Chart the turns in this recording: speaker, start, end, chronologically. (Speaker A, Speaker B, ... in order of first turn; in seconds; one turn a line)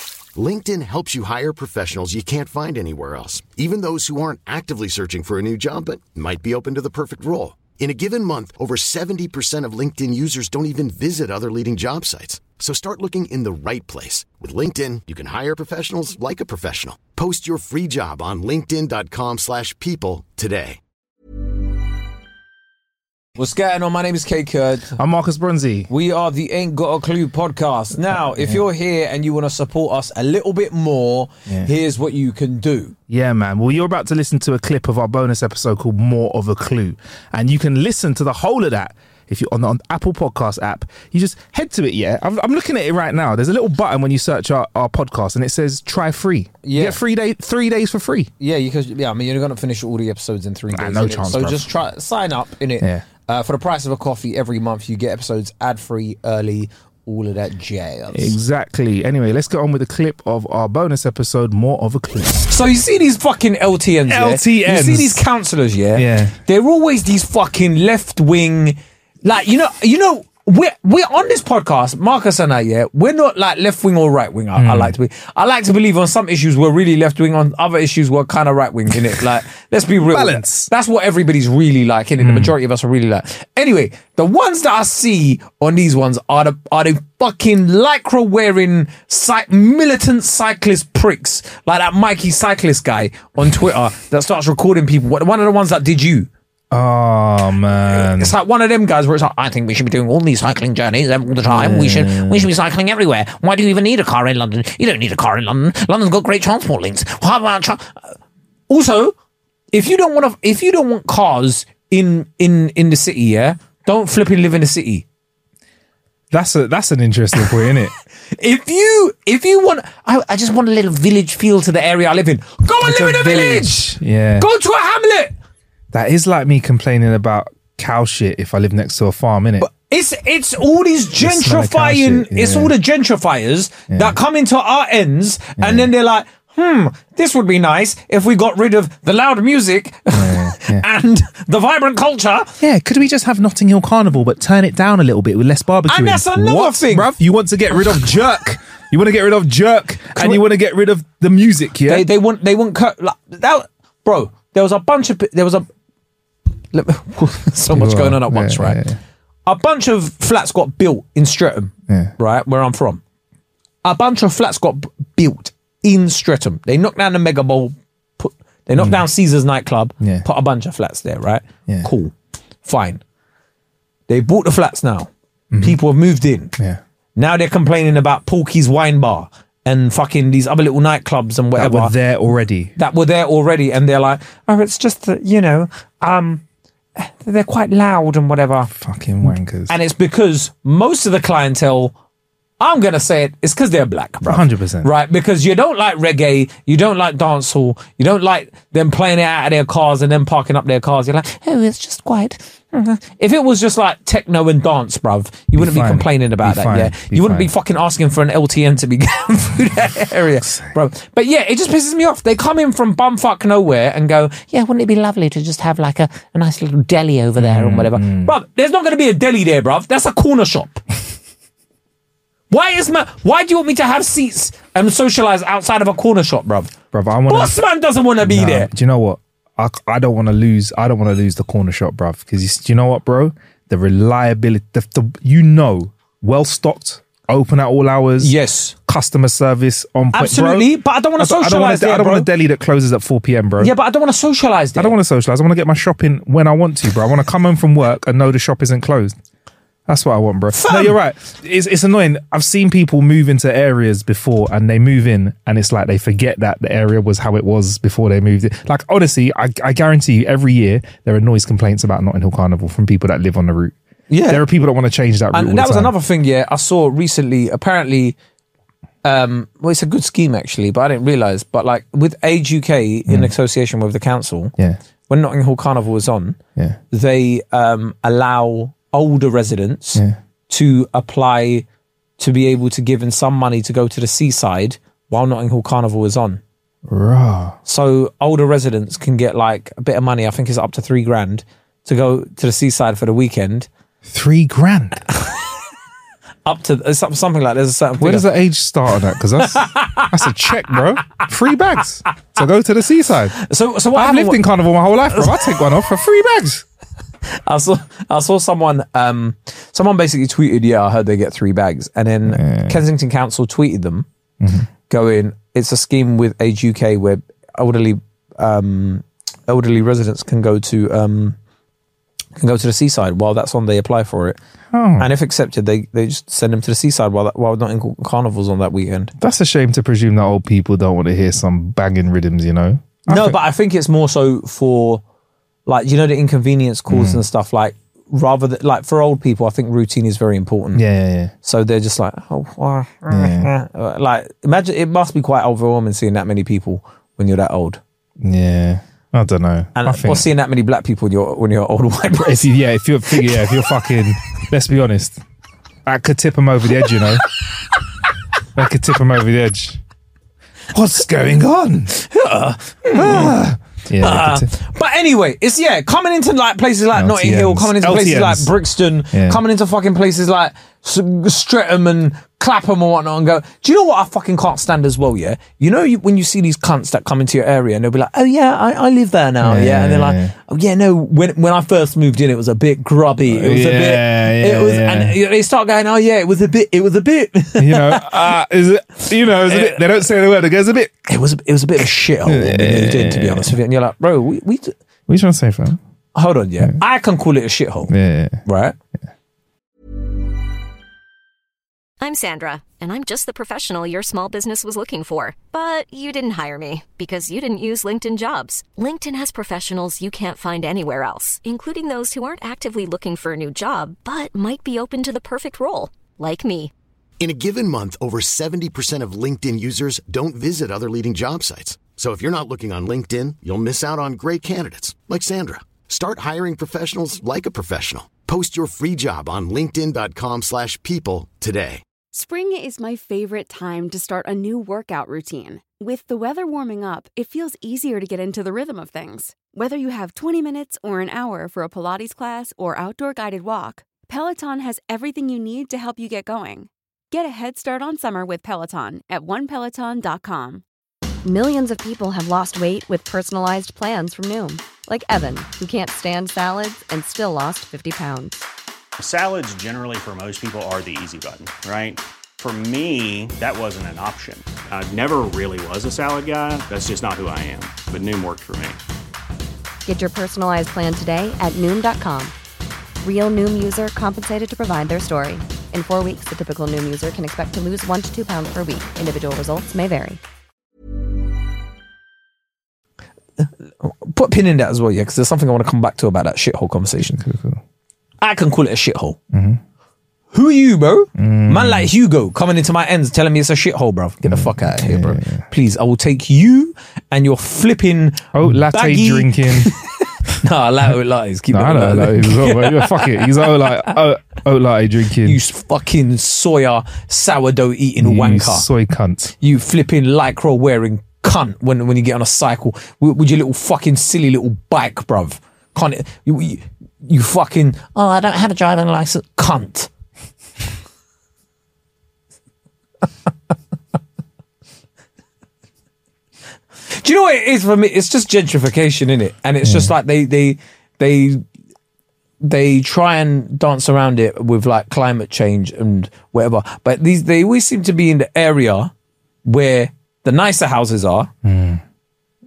Speaker A: 0.3-20.8
Speaker B: 23.4-24.9
Speaker C: 24.9-25.9
Speaker B: 25.9-32.9
Speaker C: 28.3-28.6
Speaker C: 31.5-31.7
Speaker C: 33.1-48.3
Speaker B: 46.6-47.0
Speaker B: 48.4-58.3
Speaker C: 50.7-51.7
Speaker C: 52.8-53.0
Speaker C: 58.1-62.5
Speaker B: 62.5-96.3
Speaker C: 64.1-65.2
Speaker C: 65.9-66.4
Speaker C: 74.5-74.9
Speaker C: 80.1-80.7
Speaker C: 82.2-82.5
Speaker C: 96.7-98.3
Speaker B: 97.7-107.9
Speaker C: 101.4-102.5
Speaker B: 108.7-109.1
Speaker B: 109.7-115.0
Speaker C: 116.3-117.9
Speaker B: 118.4-125.3
Speaker C: 122.8-124.5
Speaker C: 125.9-129.7
Speaker B: 129.6-142.5
Speaker C: 131.2-132.7
Speaker C: 133.9-134.2
Speaker C: 135.6-135.9
Speaker C: 140.1-140.8
Speaker C: 142.6-152.1
Speaker B: 145.9-147.1
Speaker B: 147.7-148.1
Speaker B: 150.1-150.4
Speaker B: 151.8-155.7
Speaker B: 156.7-158.8
Speaker C: 157.7-159.0
Speaker B: 159.4-163.0
Speaker C: 161.9-162.1
Speaker B: 163.8-172.1
Speaker C: 168.8-169.0
Speaker B: 172.6-173.0
Speaker B: 174.1-175.1
Speaker C: 175.5-175.8
Speaker B: 175.6-176.5
Speaker B: 177.2-182.0
Speaker C: 181.6-182.7
Speaker B: 182.8-186.4
Speaker B: 187.0-188.7
Speaker C: 188.7-189.7
Speaker B: 189.2-191.9
Speaker B: 192.6-220.8
Speaker C: 194.2-194.9
Speaker C: 205.6-207.5
Speaker C: 217.4-218.3
Speaker B: 222.5-226.7
Speaker C: 226.9-227.6
Speaker B: 227.3-228.7
Speaker C: 228.2-238.3
Speaker B: 238.2-238.7
Speaker C: 238.9-243.7
Speaker B: 240.1-242.3
Speaker B: 243.6-244.9
Speaker C: 244.8-249.1
Speaker C: 249.9-263.7
Speaker B: 250.5-251.0
Speaker B: 264.1-264.4
Speaker C: 264.3-265.9
Speaker B: 265.3-268.1
Speaker B: 269.0-274.5
Speaker B: 275.1-276.4
Speaker B: 276.9-281.6
Speaker B: 282.2-286.4
Speaker C: 286.9-287.6
Speaker B: 287.6-293.7
Speaker C: 294.1-295.0
Speaker B: 296.4-298.3
Speaker C: 298.0-303.4
Speaker B: 299.4-300.0
Speaker B: 303.5-304.4
Speaker C: 303.9-306.6
Speaker B: 305.1-305.8
Speaker B: 307.4-314.0
Speaker C: 312.2-312.8
Speaker C: 314.4-314.7
Speaker B: 314.9-321.4
Speaker B: 322.4-324.4
Speaker C: 324.7-325.1
Speaker B: 325.0-329.1
Speaker C: 329.2-333.4
Speaker B: 333.1-335.0
Speaker B: 335.7-340.8
Speaker C: 336.9-337.2
Speaker C: 340.7-341.3
Speaker B: 341.4-347.8
Speaker C: 343.1-343.5
Speaker C: 348.2-350.3
Speaker B: 349.8-352.5
Speaker C: 352.1-355.2
Speaker B: 353.1-354.0
Speaker C: 355.9-357.2
Speaker C: 358.6-359.8
Speaker C: 360.7-361.9
Speaker B: 361.9-363.4
Speaker C: 362.9-364.5
Speaker B: 364.0-388.4
Speaker C: 366.9-368.5
Speaker C: 369.1-369.4
Speaker C: 379.4-380.3
Speaker C: 383.3-385.1
Speaker C: 387.6-390.9
Speaker B: 389.3-390.1
Speaker B: 391.1-394.7
Speaker C: 392.2-393.5
Speaker C: 395.1-395.8
Speaker B: 396.1-397.9
Speaker C: 397.9-398.4
Speaker B: 398.4-398.7
Speaker D: 402.0-416.7
Speaker A: 417.2-431.8
Speaker E: 432.1-450.6
Speaker F: 451.2-458.4
Speaker G: 459.0-468.8
Speaker F: 469.9-472.3
Speaker F: 473.0-480.2
Speaker B: 483.4-487.1
Speaker C: 487.0-487.6
Speaker B: 488.2-489.2
Speaker C: 489.3-489.6
Speaker B: 490.3-503.9
Speaker C: 491.2-491.9
Speaker C: 494.3-495.5
Speaker C: 498.3-499.7
Speaker C: 501.5-505.4
Speaker B: 505.2-508.7
Speaker C: 508.0-509.3
Speaker B: 509.4-519.9
Speaker B: 526.9-531.4
Speaker C: 529.6-529.9
Speaker B: 532.4-538.9
Speaker B: 539.5-541.3
Speaker C: 541.4-541.8